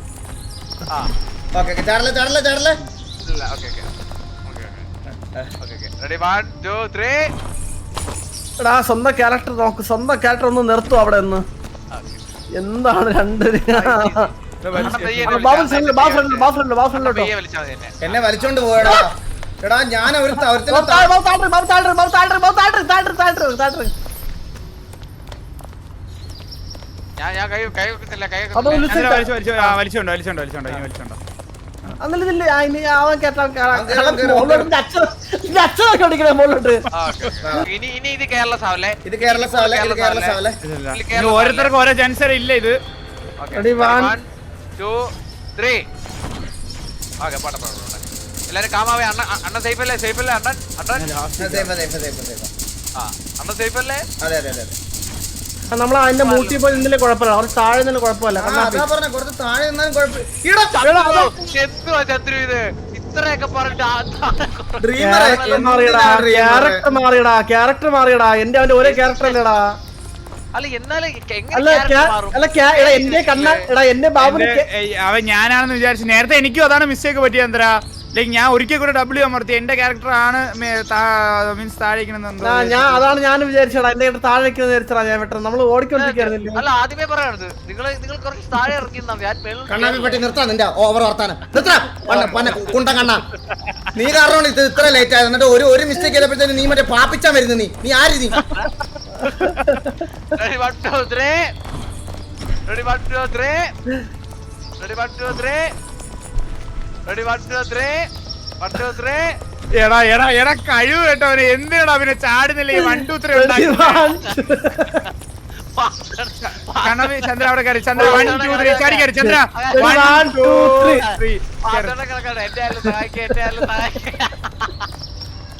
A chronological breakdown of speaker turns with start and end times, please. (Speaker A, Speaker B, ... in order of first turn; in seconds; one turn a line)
Speaker A: 1.6-2.8
Speaker B: 3.2-3.9
Speaker B: 4.5-4.9
Speaker A: 5.1-5.5
Speaker B: 5.6-7.3
Speaker C: 8.6-11.4
Speaker B: 11.9-12.2
Speaker C: 12.6-14.3
Speaker B: 13.7-18.1
Speaker D: 14.6-15.5
Speaker C: 15.2-17.3
Speaker A: 18.0-21.1
Speaker C: 20.7-23.9
Speaker B: 27.2-28.9
Speaker C: 28.5-29.8
Speaker D: 28.9-31.2
Speaker C: 32.0-36.8
Speaker A: 33.7-34.7
Speaker B: 36.9-40.4
Speaker A: 37.4-37.7
Speaker A: 39.0-40.6
Speaker D: 40.6-42.8
Speaker B: 40.9-41.7
Speaker B: 43.4-44.2
Speaker C: 43.5-44.1
Speaker B: 44.8-45.8
Speaker B: 47.2-51.1
Speaker D: 51.0-51.7
Speaker A: 51.4-52.5
Speaker B: 53.0-54.0
Speaker A: 54.2-54.8
Speaker C: 55.7-58.9
Speaker B: 56.2-56.8
Speaker A: 58.4-60.8
Speaker B: 60.7-65.7
Speaker C: 60.9-61.3
Speaker A: 64.8-66.8
Speaker C: 65.0-69.7
Speaker B: 68.8-69.4
Speaker B: 70.5-73.6
Speaker C: 71.5-74.6
Speaker D: 74.2-83.2
Speaker C: 82.4-86.6
Speaker B: 86.0-90.2
Speaker A: 89.7-93.2
Speaker B: 92.1-92.8
Speaker C: 92.1-92.4
Speaker A: 94.0-98.4
Speaker B: 98.4-98.7
Speaker C: 99.2-100.0
Speaker B: 99.2-99.5
Speaker B: 100.3-101.4
Speaker B: 102.7-103.7
Speaker B: 104.8-105.7
Speaker B: 107.1-108.0
Speaker B: 108.6-109.3
Speaker D: 109.8-114.0
Speaker C: 112.7-115.0
Speaker B: 115.8-120.0
Speaker D: 116.4-121.9
Speaker C: 118.0-118.3
Speaker C: 119.2-121.0
Speaker B: 121.0-124.7